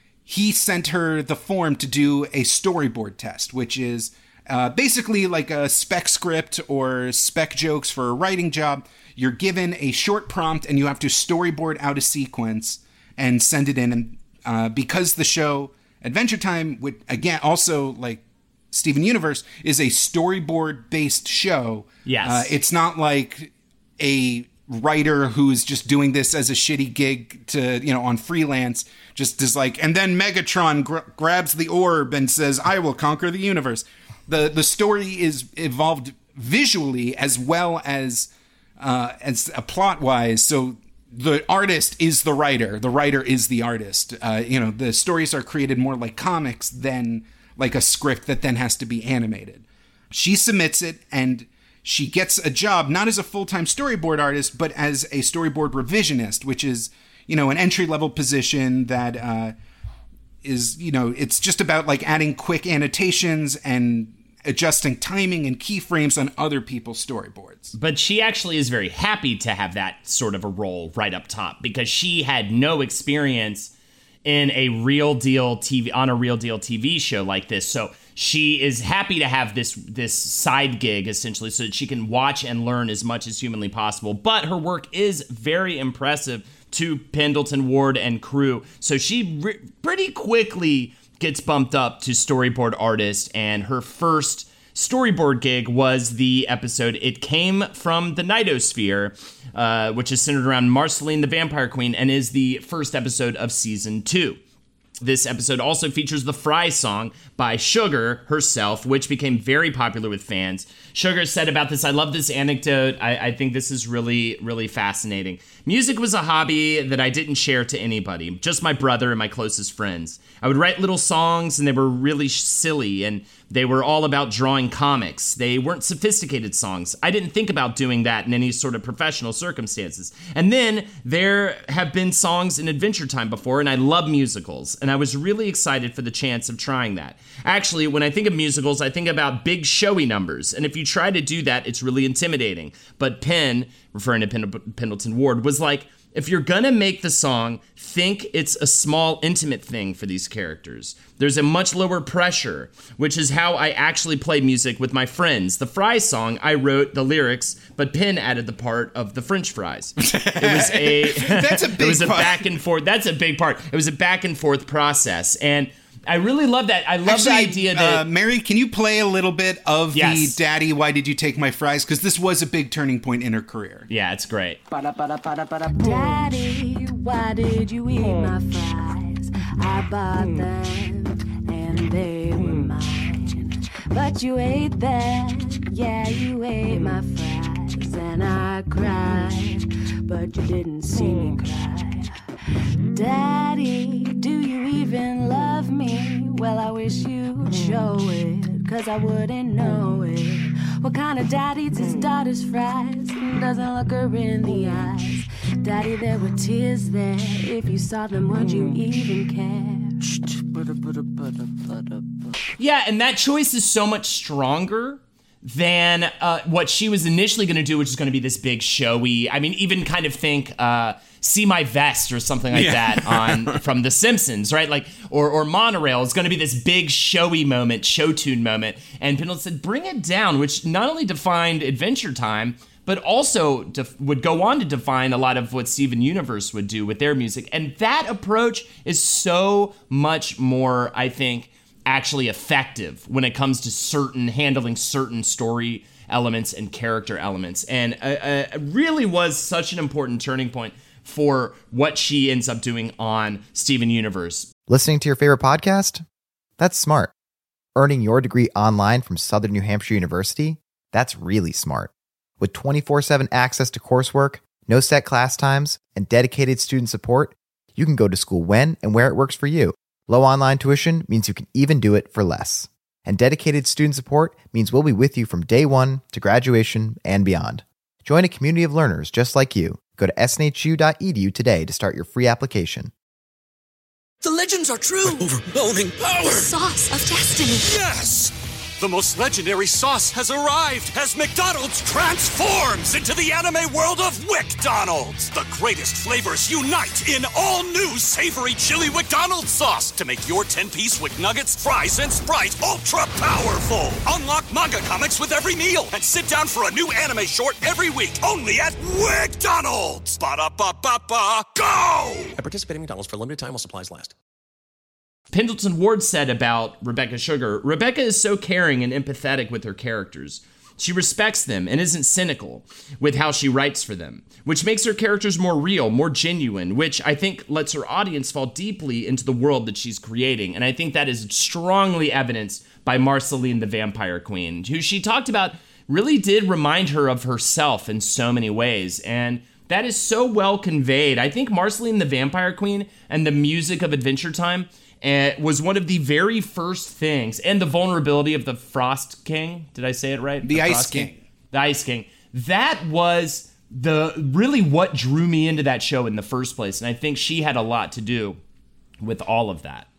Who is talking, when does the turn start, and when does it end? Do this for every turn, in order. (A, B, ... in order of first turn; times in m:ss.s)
0:00.2-0:59.5 A
0:22.0-0:22.5 B
1:00.4-1:07.7 A
1:07.7-1:13.7 B
1:14.2-1:44.4 B
1:45.0-2:48.0 B
2:40.0-2:42.5 A
2:47.0-2:53.9 A
2:49.9-2:50.4 B
2:53.9-2:54.6 B
2:55.6-3:12.2 C
3:12.9-3:30.1 C
3:32.6-4:14.5 B
3:42.5-3:43.6 A
4:14.7-4:16.0 D
4:16.6-4:17.1 D
4:17.8-4:42.9 D
4:44.2-4:47.7 E
4:47.7-5:12.3 F
5:12.4-5:14.1 E
5:15.3-5:58.4 B
5:50.4-5:51.2 A
5:59.0-5:59.9 B